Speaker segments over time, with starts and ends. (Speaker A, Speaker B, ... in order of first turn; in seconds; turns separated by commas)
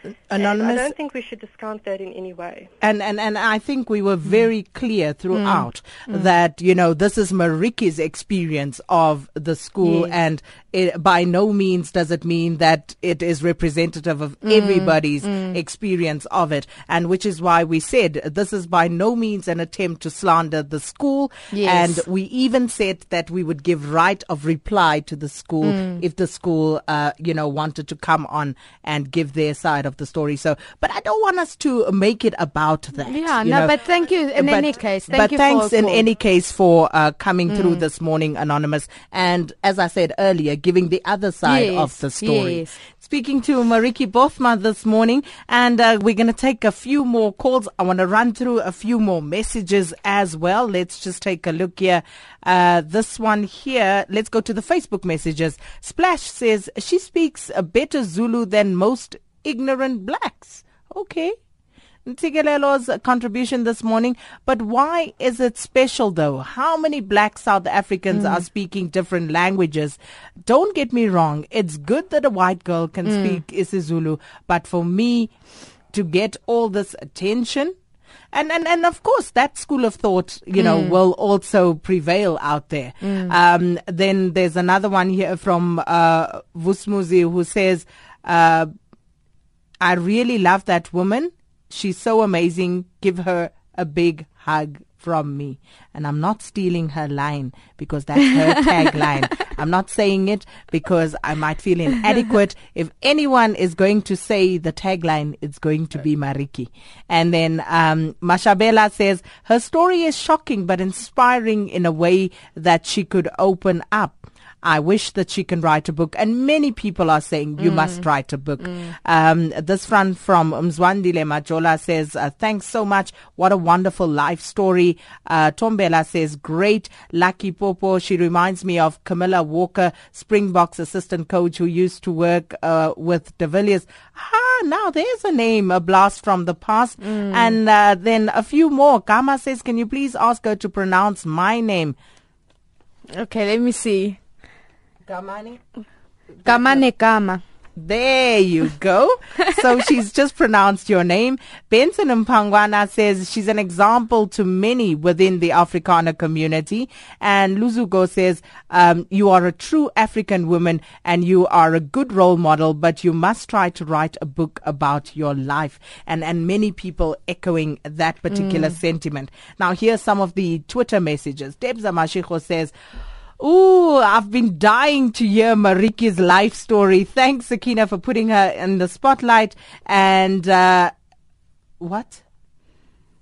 Speaker A: 0.3-0.9, Speaker B: 0.3-2.7, Speaker A: 2.8-33.7, Speaker C: 5.3-6.2, Speaker C: 9.8-10.1, Speaker C: 14.4-15.6, Speaker C: 21.5-22.0, Speaker C: 25.6-26.0, Speaker C: 33.1-36.0, Speaker A: 34.4-61.3, Speaker C: 37.5-37.8, Speaker C: 41.4-42.8, Speaker A: 62.0-75.3, Speaker C: 68.1-68.4, Speaker C: 73.1-73.4, Speaker A: 75.9-77.7, Speaker A: 78.3-88.7, Speaker C: 80.5-81.0, Speaker C: 83.0-83.3, Speaker A: 89.8-141.9, Speaker C: 117.6-118.0, Speaker C: 137.0-137.6, Speaker C: 143.1-144.2, Speaker A: 145.1-145.6, Speaker A: 146.4-146.8, Speaker C: 146.4-147.4, Speaker A: 147.8-172.7, Speaker C: 168.3-168.7, Speaker A: 173.4-180.9, Speaker A: 181.8-182.2